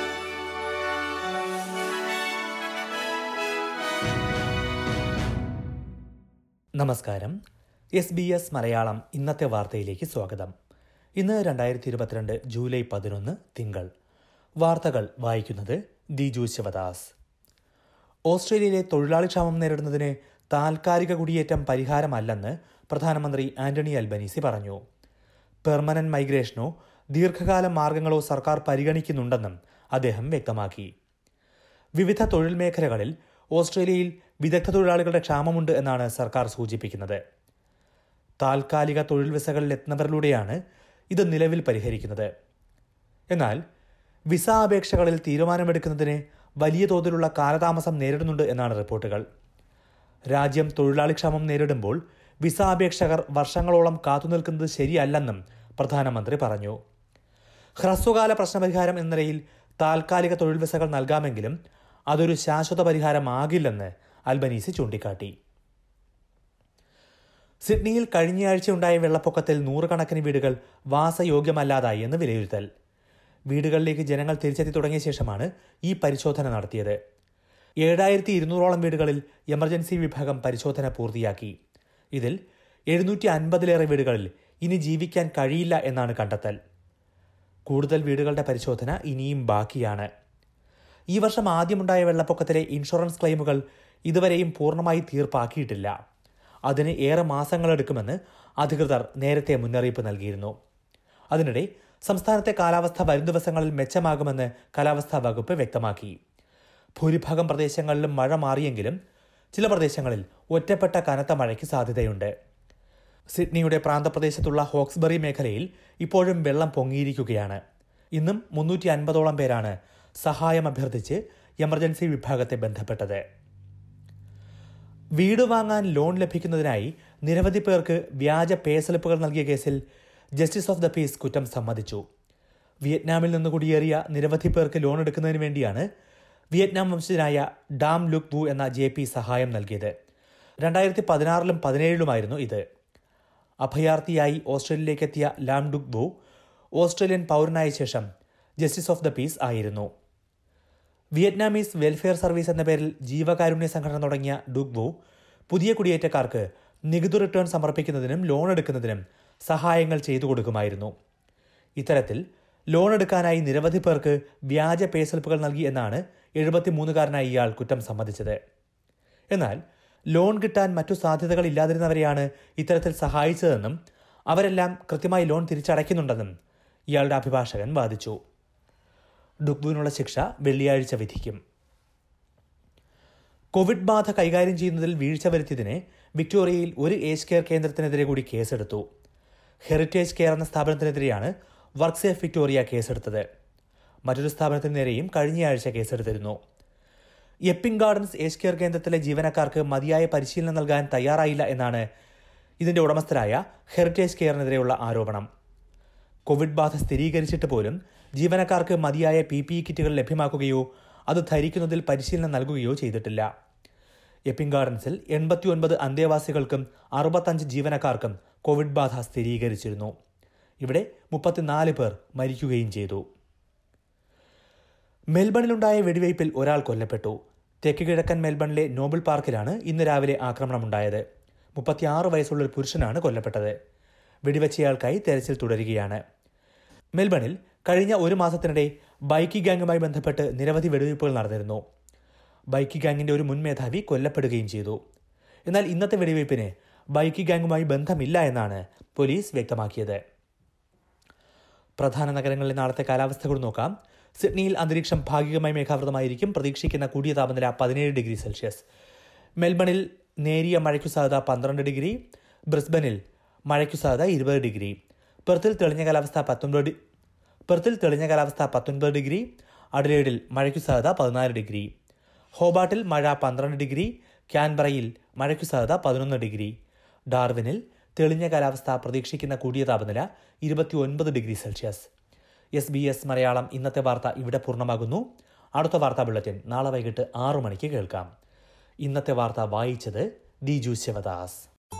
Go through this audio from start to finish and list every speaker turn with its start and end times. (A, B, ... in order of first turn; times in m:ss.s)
0:06.8-0:07.4 A
0:08.0-0:10.5 A
0:11.2-0:13.9 A
0:14.6-0:17.1 A
0:18.3-0:24.8 A
0:25.6-0:30.9 A
0:32.0-0:37.2 A
0:38.4-0:40.6 A
0:41.1-0:42.3 A
0:43.3-0:43.6 A
0:44.3-0:49.2 A
0:50.3-0:56.8 A
0:57.8-1:01.5 A
1:02.1-1:05.3 A
1:07.6-1:12.6 A
1:13.5-1:17.0 A
1:17.8-1:21.5 A
1:22.9-1:26.6 A
1:27.7-1:30.1 A
1:31.1-1:35.9 A
1:36.7-1:40.5 A
1:41.3-1:46.2 A
1:47.0-1:49.0 A
1:49.5-1:52.3 A
1:53.3-1:57.6 A
1:58.2-2:03.2 A
2:05.2-2:09.8 A
2:10.4-2:12.0 A
2:12.8-2:15.9 A
2:16.5-2:19.9 A
2:20.6-2:22.6 A
2:23.6-2:26.1 A
2:26.8-2:28.0 A
2:28.6-2:29.9 A
2:31.2-2:34.9 A
2:35.5-2:40.9 A
2:41.8-2:42.2 A
2:42.7-2:48.4 A
2:49.3-2:49.6 A
2:50.1-2:53.8 A
2:54.3-2:56.3 A
2:56.9-2:58.2 A
2:59.4-3:01.4 A
3:03.5-3:08.8 A
3:09.6-3:13.2 A
3:14.0-3:16.4 A
3:17.5-3:21.8 A
3:22.6-3:25.2 A
3:26.3-3:33.3 A
3:34.3-3:39.9 A
3:40.6-3:43.0 A
3:45.1-3:51.0 A
3:51.6-3:53.5 A
3:54.2-3:56.0 A
3:57.0-4:01.6 A
4:02.5-4:04.8 A
4:05.5-4:10.0 A
4:11.8-4:18.6 A
4:19.4-4:26.7 A
4:27.5-4:31.7 A
4:32.4-4:36.5 A
4:37.1-4:41.9 A
4:42.6-4:48.1 A
4:48.8-4:51.4 A